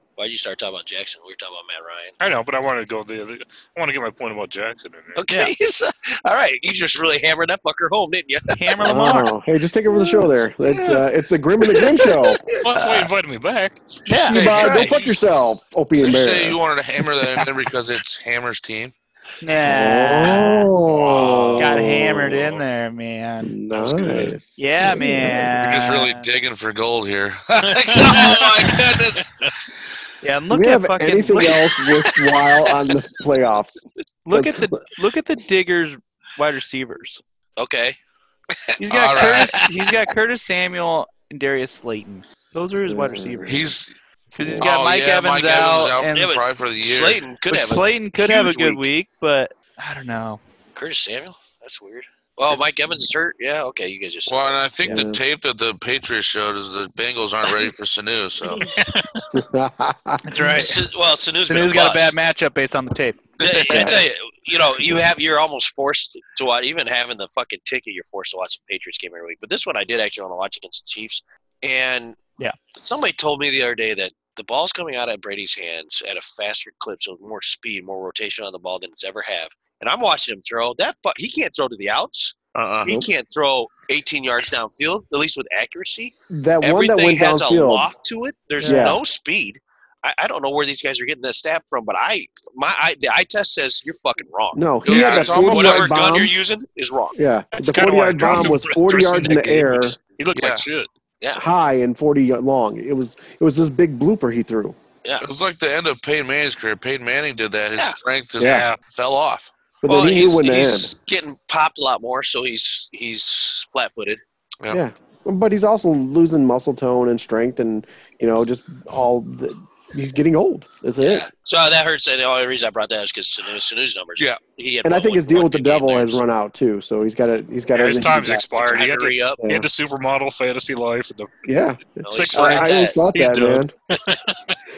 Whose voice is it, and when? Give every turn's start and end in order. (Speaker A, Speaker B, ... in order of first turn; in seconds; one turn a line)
Speaker A: 0.2-2.1
Speaker B: 2.2-5.2
Speaker A: 5.2-8.6
Speaker C: 8.5-9.3
Speaker D: 8.8-12.4
Speaker A: 9.9-11.0
Speaker A: 11.6-12.6
Speaker B: 12.6-13.8
Speaker C: 12.7-13.1
Speaker C: 14.1-14.4
Speaker D: 14.1-16.6
Speaker E: 14.3-15.2
Speaker A: 14.5-14.9
Speaker E: 16.0-18.9
Speaker C: 19.4-20.7
Speaker D: 19.6-22.5
Speaker E: 21.2-21.6
Speaker C: 21.6-23.5
Speaker D: 23.4-25.5
Speaker E: 23.7-24.3
Speaker C: 24.6-26.3
Speaker E: 25.5-29.3
Speaker A: 27.9-28.8
Speaker C: 30.2-31.6
Speaker D: 30.5-34.7
Speaker C: 34.2-37.2
Speaker A: 37.6-38.0
Speaker A: 38.7-39.9
Speaker C: 38.8-43.7
Speaker E: 38.9-39.5
Speaker D: 42.9-43.7
Speaker E: 43.5-44.0
Speaker D: 44.3-44.7
Speaker C: 44.4-46.3
Speaker E: 44.6-47.2
Speaker A: 46.1-48.9
Speaker C: 47.5-50.4
Speaker A: 50.7-54.7
Speaker E: 54.3-58.6
Speaker D: 54.8-55.2
Speaker B: 58.6-59.0
Speaker D: 59.3-60.4
Speaker C: 60.2-60.8
Speaker A: 60.5-62.1
Speaker C: 61.5-63.3
Speaker A: 63.4-72.2
Speaker D: 63.7-64.1
Speaker A: 72.8-97.2
Speaker E: 82.5-82.9
Speaker D: 86.3-87.9
Speaker C: 88.6-88.9
Speaker D: 88.6-89.0
Speaker D: 94.5-96.3
Speaker E: 94.8-95.9
Speaker D: 97.1-100.0
Speaker B: 97.5-100.9
Speaker E: 100.3-100.7
Speaker D: 101.3-104.8
Speaker E: 105.2-109.5
Speaker D: 108.4-108.6
Speaker B: 108.4-108.8
Speaker D: 109.8-110.9
Speaker A: 109.8-114.2
Speaker D: 114.7-121.3
Speaker A: 121.0-126.2
Speaker D: 124.8-128.4
Speaker B: 127.7-131.4
Speaker A: 128.5-129.4
Speaker D: 129.4-129.7
Speaker D: 131.4-133.7
Speaker A: 132.0-133.0
Speaker B: 132.1-134.5